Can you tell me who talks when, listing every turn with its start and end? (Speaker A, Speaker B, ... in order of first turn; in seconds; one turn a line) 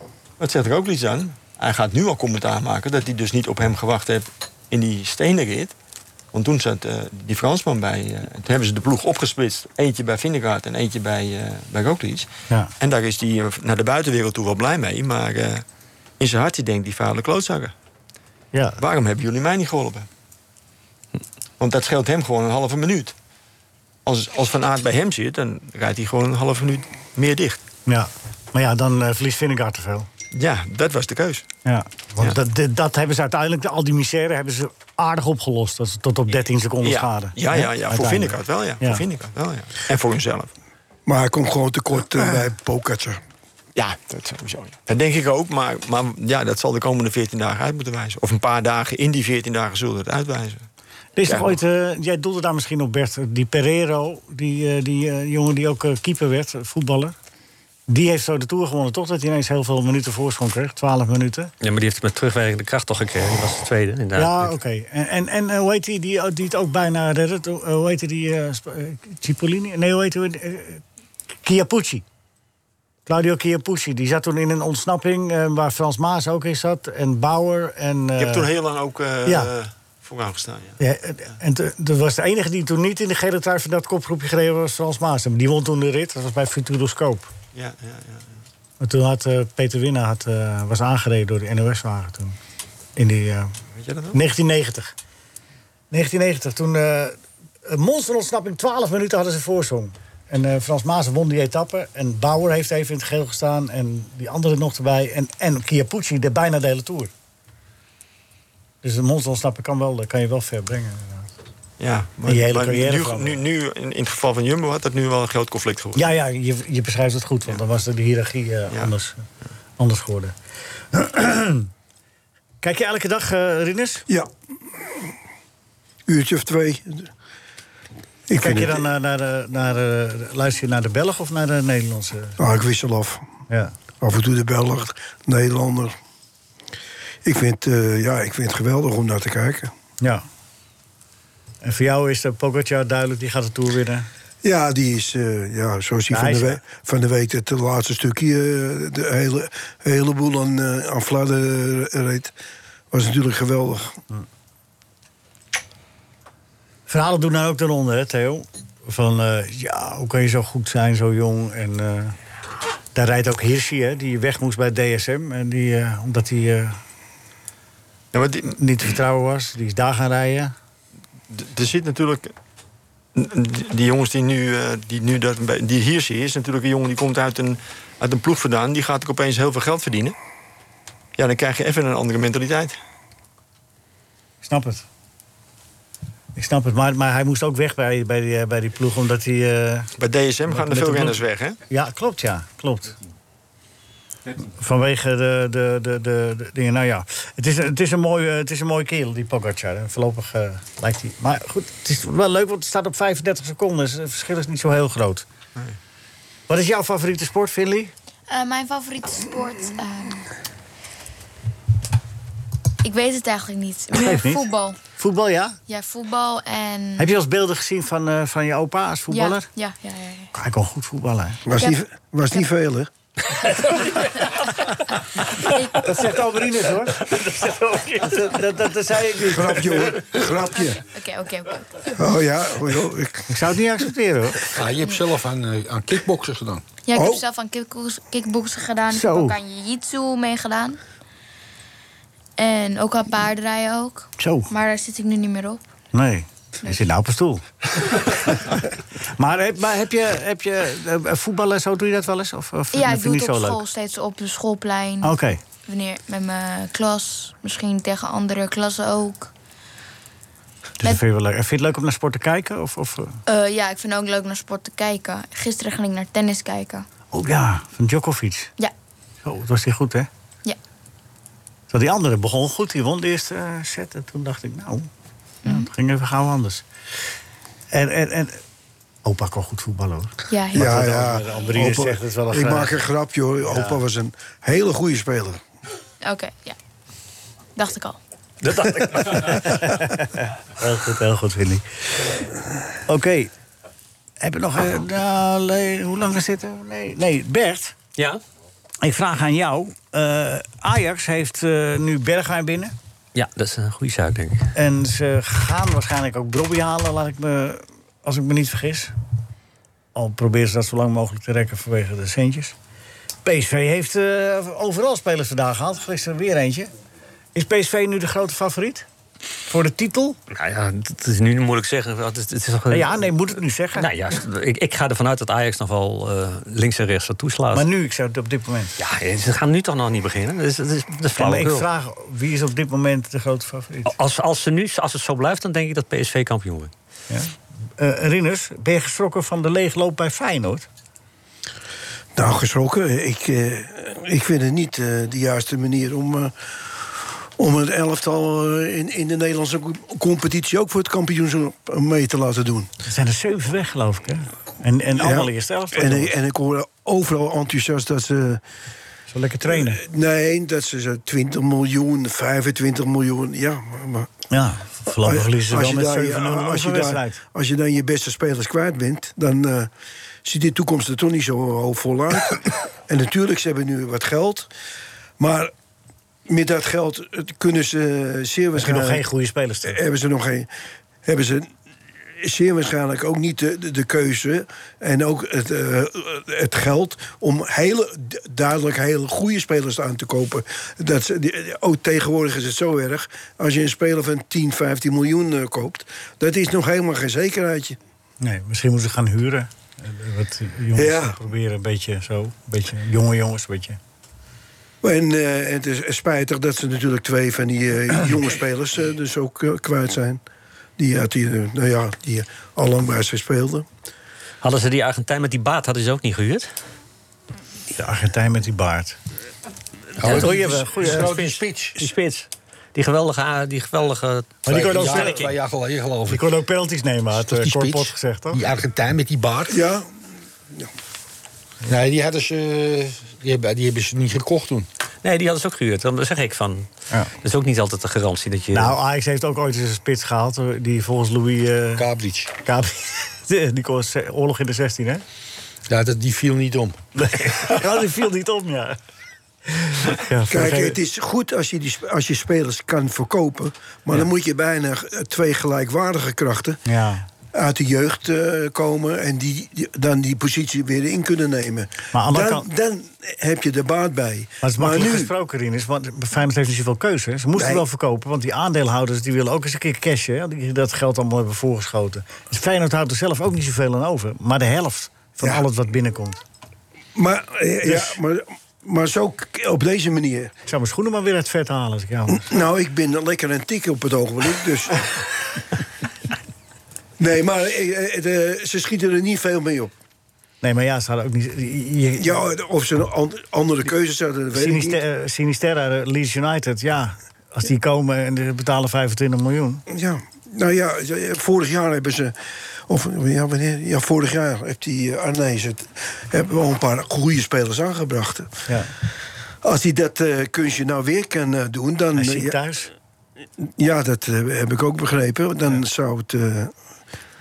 Speaker A: 0.4-5.7
Speaker A: 6.3-15.6
Speaker A: 16.2-17.7
Speaker B: 18.5-18.8
Speaker A: 18.8-20.1
Speaker A: 21.6-23.1
Speaker A: 24.1-27.6
Speaker B: 27.9-30.1
Speaker A: 30.3-31.5
Speaker B: 31.6-39.0
Speaker A: 36.8-40.5
Speaker C: 41.0-43.2
Speaker A: 43.7-50.6
Speaker B: 51.2-57.1
Speaker A: 51.2-51.6
Speaker B: 57.9-61.5
Speaker D: 61.6-64.5
Speaker B: 64.2-70.8
Speaker B: 71.4-72.0
Speaker B: 73.1-78.5
Speaker A: 78.2-80.8
Speaker B: 79.2-79.5
Speaker B: 80.8-87.3
Speaker A: 87.5-88.4
Speaker B: 88.8-92.3
Speaker B: 93.0-93.5
Speaker A: 93.7-94.2
Speaker B: 94.1-94.9
Speaker B: 95.9-107.1
Speaker B: 108.8-111.3
Speaker A: 111.8-116.1
Speaker B: 112.3-113.4
Speaker B: 116.0-119.2
Speaker B: 119.8-120.3
Speaker B: 120.9-121.7
Speaker B: 122.6-124.0
Speaker C: 124.1-125.0
Speaker C: 126.1-127.1
Speaker C: 128.3-128.8
Speaker B: 128.4-132.4
Speaker C: 132.4-133.2
Speaker C: 134.0-135.9
Speaker C: 137.2-139.7
Speaker B: 141.6-144.1
Speaker C: 144.4-152.3
Speaker B: 146.1-146.6
Speaker C: 152.9-154.0
Speaker B: 156.9-162.2
Speaker B: 162.9-166.8
Speaker A: 168.1-168.6
Speaker B: 168.6-170.5
Speaker A: 171.3-172.3
Speaker A: 173.1-180.2
Speaker A: 181.2-182.8
Speaker B: 184.4-184.8
Speaker B: 186.3-189.9
Speaker A: 190.0-191.6
Speaker B: 190.5-193.0
Speaker B: 194.4-205.2
Speaker B: 206.5-207.9
Speaker E: 208.3-210.3
Speaker E: 212.8-214.8
Speaker B: 213.9-214.4
Speaker B: 215.0-215.6
Speaker E: 215.7-217.1
Speaker B: 217.0-219.5
Speaker E: 219.1-220.3
Speaker B: 220.3-221.4
Speaker C: 221.5-222.9
Speaker E: 221.6-221.8
Speaker E: 223.7-224.7
Speaker E: 225.4-225.9
Speaker B: 225.8-229.9
Speaker C: 229.2-230.8
Speaker E: 230.7-231.9
Speaker C: 232.0-233.3
Speaker B: 233.3-234.5
Speaker F: 234.5-236.6
Speaker E: 234.8-235.1
Speaker E: 236.8-240.8
Speaker C: 236.9-237.2
Speaker B: 238.9-239.4
Speaker E: 242.4-245.6
Speaker B: 244.2-244.5
Speaker B: 245.9-247.4
Speaker B: 248.0-248.6
Speaker B: 249.2-253.6
Speaker E: 252.7-259.3
Speaker B: 255.0-255.4
Speaker B: 260.8-263.2
Speaker E: 263.3-266.9
Speaker B: 267.1-268.5
Speaker B: 269.2-270.1
Speaker B: 271.7-274.9
Speaker B: 275.4-276.6
Speaker B: 277.7-278.4
Speaker B: 279.0-282.8
Speaker E: 280.3-280.7
Speaker C: 280.5-285.4
Speaker B: 283.5-283.8
Speaker E: 286.0-286.6
Speaker E: 287.6-288.0
Speaker D: 288.4-289.6
Speaker B: 289.1-291.6
Speaker B: 292.9-293.3
Speaker B: 294.2-297.8
Speaker B: 298.8-302.7
Speaker D: 303.1-304.5
Speaker B: 304.5-308.9
Speaker B: 309.9-312.5
Speaker B: 313.2-316.7
Speaker B: 317.3-318.9
Speaker B: 319.5-320.2
Speaker D: 320.3-323.1
Speaker B: 322.7-323.9
Speaker D: 323.8-327.7
Speaker B: 327.5-328.8
Speaker D: 328.8-331.7
Speaker B: 331.1-333.9
Speaker D: 333.9-336.7
Speaker B: 337.1-340.7
Speaker C: 342.1-346.3
Speaker C: 347.4-352.7
Speaker B: 352.9-356.1
Speaker C: 354.9-358.4
Speaker B: 359.1-359.8
Speaker C: 359.5-364.1
Speaker B: 364.3-367.2
Speaker C: 365.0-369.7
Speaker C: 370.2-374.5
Speaker C: 375.2-375.5
Speaker C: 376.3-379.0
Speaker B: 378.6-379.8
Speaker C: 379.7-380.5
Speaker C: 381.0-381.5
Speaker C: 382.2-397.8
Speaker B: 398.2-403.8
Speaker C: 400.8-401.2
Speaker C: 404.8-410.2
Speaker C: 410.8-413.6
Speaker D: 414.4-416.5
Speaker B: 417.8-419.0
Speaker F: 420.0-421.8
Speaker D: 420.0-425.3
Speaker B: 420.1-421.3
Speaker B: 424.4-425.3
Speaker F: 424.5-426.2
Speaker B: 426.1-428.4
Speaker F: 427.1-429.6
Speaker C: 429.5-429.9
Speaker F: 431.6-434.7
Speaker D: 435.0-436.7
Speaker D: 437.2-438.8
Speaker B: 438.5-441.8
Speaker F: 441.8-442.3
Speaker B: 442.4-445.0
Speaker F: 445.7-446.8
Speaker B: 447.0-448.8
Speaker B: 449.5-450.8
Speaker C: 450.3-456.6
Speaker B: 456.6-457.1
Speaker C: 457.3-465.1
Speaker B: 461.9-462.4
Speaker B: 464.4-476.2
Speaker C: 467.4-467.6
Speaker C: 476.9-480.3
Speaker B: 477.6-478.0
Speaker B: 480.4-482.3
Speaker C: 482.2-484.9
Speaker C: 487.0-489.7
Speaker B: 490.4-492.2
Speaker C: 492.0-494.8
Speaker B: 494.3-499.6
Speaker C: 499.7-502.1
Speaker C: 502.7-508.3
Speaker C: 509.4-512.3
Speaker B: 511.9-512.7
Speaker C: 513.6-516.5